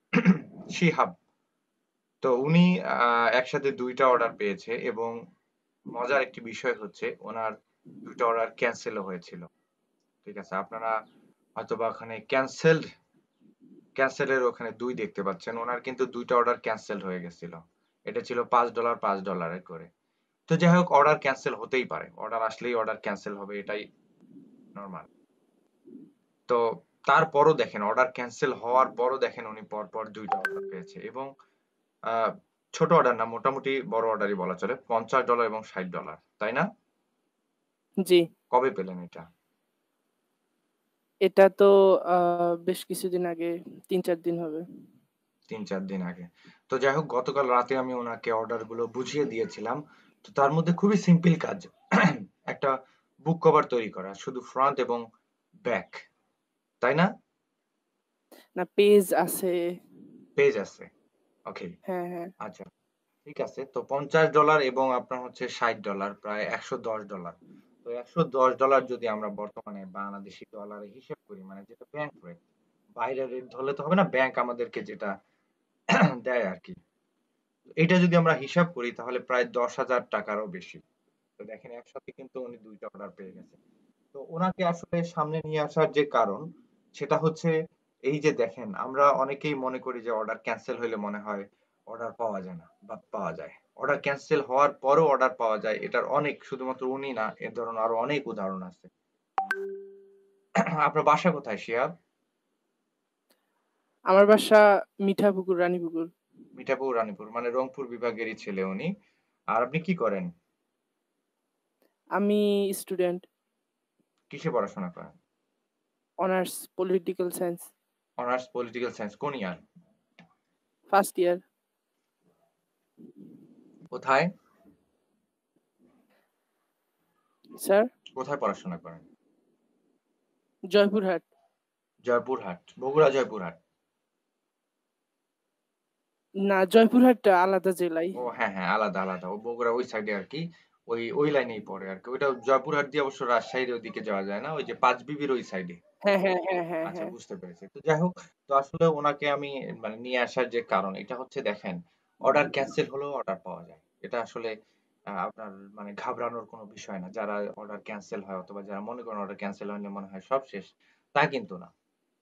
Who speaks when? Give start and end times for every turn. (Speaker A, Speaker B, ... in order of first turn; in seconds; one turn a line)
Speaker A: 0.2-1.1
Speaker A: 2.2-5.1
Speaker A: 6.0-7.5
Speaker A: 8.1-9.4
Speaker A: 10.2-10.9
Speaker A: 11.6-12.8
Speaker A: 14.0-19.9
Speaker A: 20.5-23.8
Speaker A: 24.8-25.1
Speaker A: 26.5-31.3
Speaker A: 32.8-36.6
Speaker A: 38.5-39.2
Speaker B: 41.3-44.6
Speaker A: 45.5-52.7
Speaker A: 53.3-55.0
Speaker A: 55.7-56.0
Speaker A: 56.8-57.1
Speaker B: 58.6-59.5
Speaker A: 60.4-60.9
Speaker B: 61.9-62.3
Speaker A: 63.3-72.4
Speaker A: 73.0-75.1
Speaker A: 76.2-76.8
Speaker A: 77.8-80.8
Speaker A: 81.4-83.6
Speaker A: 84.1-86.4
Speaker A: 87.0-87.5
Speaker A: 88.1-98.9
Speaker A: 100.8-101.9
Speaker B: 104.1-106.1
Speaker A: 106.6-108.9
Speaker A: 109.5-110.3
Speaker B: 112.2-113.2
Speaker A: 114.3-115.1
Speaker B: 116.2-117.7
Speaker A: 118.2-119.6
Speaker B: 120.9-121.4
Speaker A: 123.9-124.3
Speaker B: 127.6-127.9
Speaker A: 128.2-129.0
Speaker B: 130.7-131.2
Speaker A: 132.1-133.6
Speaker B: 136.5-138.2
Speaker A: 138.2-145.8
Speaker B: 146.1-147.1
Speaker A: 146.8-154.5
Speaker A: 155.2-161.7